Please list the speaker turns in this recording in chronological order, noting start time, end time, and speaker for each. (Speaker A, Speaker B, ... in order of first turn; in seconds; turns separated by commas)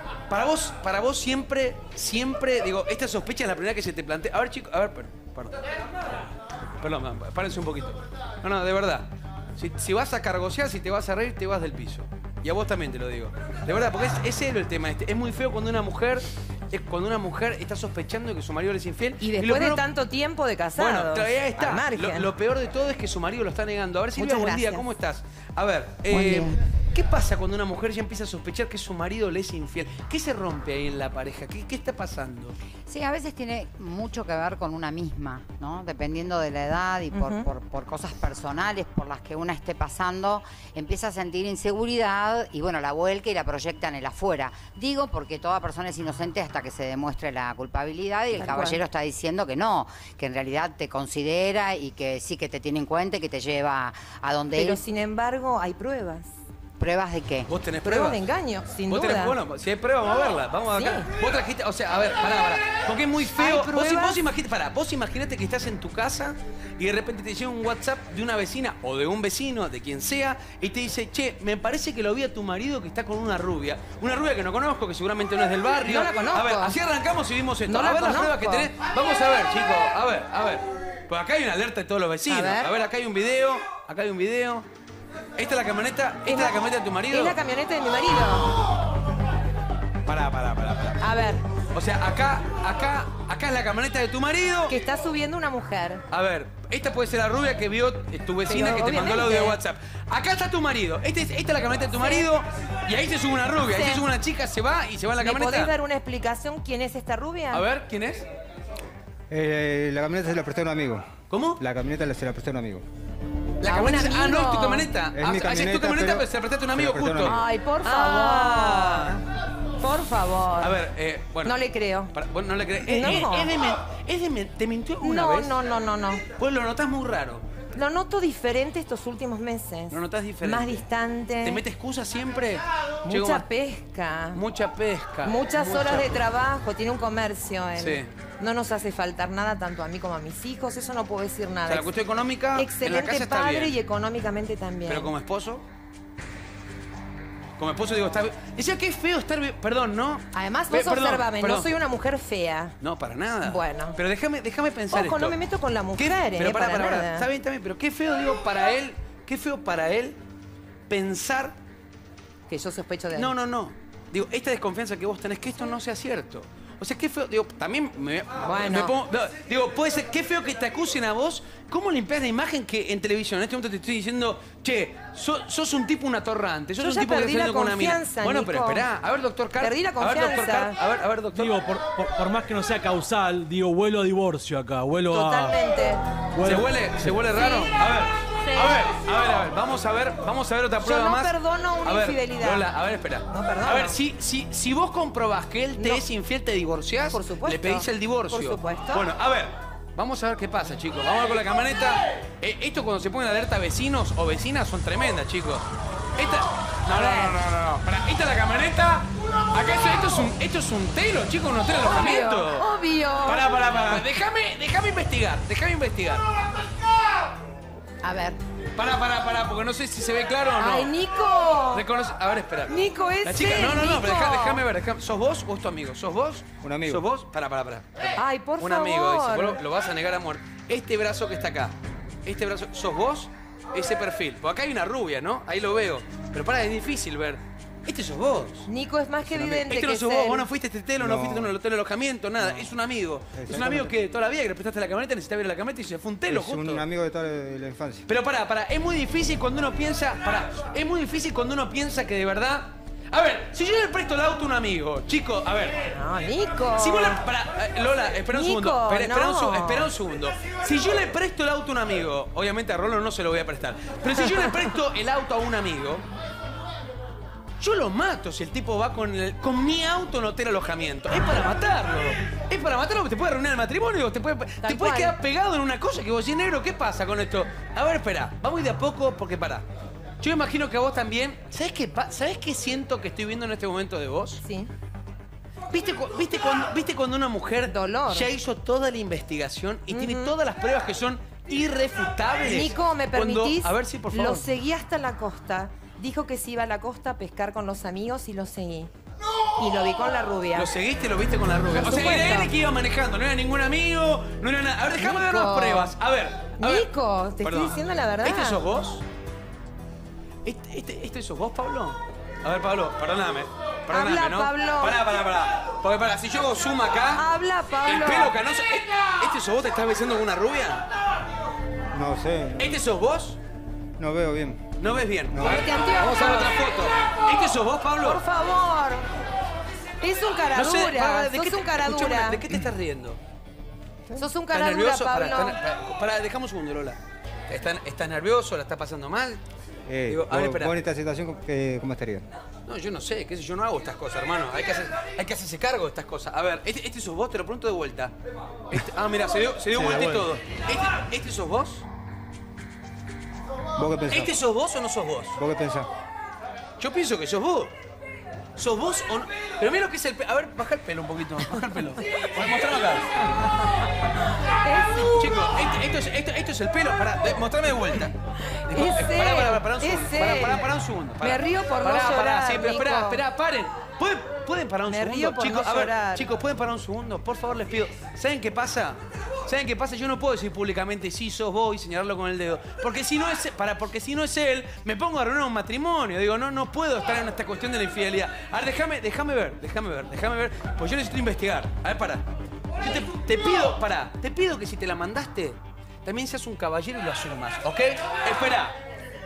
Speaker A: 0.3-5.6, Speaker A: 6.8-19.8, Speaker B: 19.2-22.3, Speaker A: 20.8-32.5, Speaker B: 24.2-24.9, Speaker C: 26.1-26.5, Speaker C: 32.9-54.8, Speaker B: 37.1-37.5, Speaker B: 48.3-48.8, Speaker B: 54.5-56.3, Speaker C: 56.8-57.5, Speaker A: 57.5-58.2, Speaker B: 57.8-59.3, Speaker A: 58.9-84.7, Speaker B: 60.7-61.1, Speaker B: 63.3-64.2, Speaker B: 75.8-76.8, Speaker B: 77.7-78.7, Speaker B: 82.3-82.7, Speaker A: 85.3-87.4, Speaker B: 86.2-86.5, Speaker B: 87.1-88.5, Speaker A: 90.0-91.0, Speaker B: 91.0-91.4, Speaker A: 91.7-94.7, Speaker B: 94.7-96.0, Speaker A: 96.1-105.7, Speaker B: 98.5-99.6, Speaker B: 101.9-102.3, Speaker B: 103.7-104.0, Speaker B: 105.2-107.6, Speaker A: 107.5-108.2, Speaker D: 109.3-112.8, Speaker A: 111.3-111.6, Speaker A: 113.6-119.2, Speaker B: 113.6-114.9, Speaker D: 115.1-117.4, Speaker B: 117.2-119.2, Speaker B: 119.8-120.8, Speaker A: 120.6-121.6, Speaker B: 121.4-122.1, Speaker A: 122.1-125.5, Speaker B: 122.8-123.5, Speaker B: 125.0-126.2, Speaker A: 126.4-127.4, Speaker B: 127.7-131.6, Speaker A: 129.9-130.8, Speaker A: 131.4-133.4, Speaker B: 133.1-134.4, Speaker A: 134.3-136.2, Speaker B: 135.2-141.9, Speaker A: 137.8-138.1, Speaker A: 141.7-143.8, Speaker B: 142.5-145.1, Speaker A: 144.9-145.6, Speaker A: 147.6-151.7, Speaker B: 150.3-152.8, Speaker A: 152.8-155.4, Speaker B: 153.4-154.0, Speaker B: 154.9-157.3, Speaker A: 156.0-160.2, Speaker A: 160.9-161.5, Speaker B: 162.5-163.3, Speaker A: 163.1-181.6, Speaker B: 168.4-168.9, Speaker B: 176.8-178.8, Speaker B: 179.6-180.8, Speaker E: 181.3-185.6, Speaker B: 185.1-186.0, Speaker E: 186.3-187.2, Speaker A: 186.4-205.7, Speaker B: 187.3-187.8, Speaker B: 188.4-188.9, Speaker B: 190.8-192.7, Speaker B: 193.3-194.0, Speaker B: 195.8-196.0, Speaker B: 197.1-199.1, Speaker A: 206.2-212.7, Speaker B: 206.9-207.3, Speaker B: 211.8-213.5, Speaker A: 213.2-216.2, Speaker B: 218.0-218.4, Speaker A: 218.8-220.9, Speaker B: 220.6-221.8, Speaker A: 221.7-238.7, Speaker B: 222.7-224.6, Speaker D: 226.6-227.0, Speaker B: 228.2-229.6, Speaker B: 238.7-240.4, Speaker A: 239.2-246.8, Speaker D: 241.0-241.5, Speaker D: 242.4-242.7, Speaker D: 243.3-243.9, Speaker D: 246.3-248.1, Speaker A: 248.1-255.9, Speaker B: 255.9-257.2, Speaker A: 256.8-266.0, Speaker B: 258.3-259.9, Speaker B: 264.4-264.6, Speaker A: 267.6-279.6, Speaker B: 274.6-275.1, Speaker A: 280.2-284.4, Speaker B: 284.4-284.7, Speaker A: 285.7-294.5, Speaker B: 287.7-288.3, Speaker B: 289.9-290.4, Speaker B: 292.4-298.9, Speaker B: 299.6-300.7, Speaker A: 300.6-306.9, Speaker B: 301.7-302.5, Speaker B: 305.0-305.9, Speaker B: 306.6-308.6, Speaker A: 307.4-309.0, Speaker A: 310.4-317.2, Speaker B: 313.9-315.0, Speaker B: 317.1-318.4, Speaker A: 317.9-320.9, Speaker D: 321.9-322.8, Speaker A: 322.6-323.4, Speaker D: 324.0-324.8, Speaker A: 324.8-328.2, Speaker D: 325.3-325.6, Speaker B: 325.4-326.6, Speaker B: 328.0-329.1, Speaker B: 330.0-332.4, Speaker A: 330.6-333.2, Speaker B: 334.2-335.6, Speaker A: 334.5-339.4, Speaker D: 339.9-342.3, Speaker A: 340.1-340.8, Speaker A: 342.6-348.1, Speaker A: 348.7-351.8, Speaker D: 349.8-350.3, Speaker D: 353.8-354.4, Speaker A: 354.1-355.4, Speaker D: 355.4-355.9, Speaker A: 356.8-357.7, Speaker A: 358.6-363.2, Speaker B: 364.6-365.2, Speaker A: 365.1-368.1, Speaker B: 368.4-370.6, Speaker A: 368.7-392.2, Speaker B: 371.2-373.2, Speaker B: 374.9-376.3, Speaker A: 392.8-398.8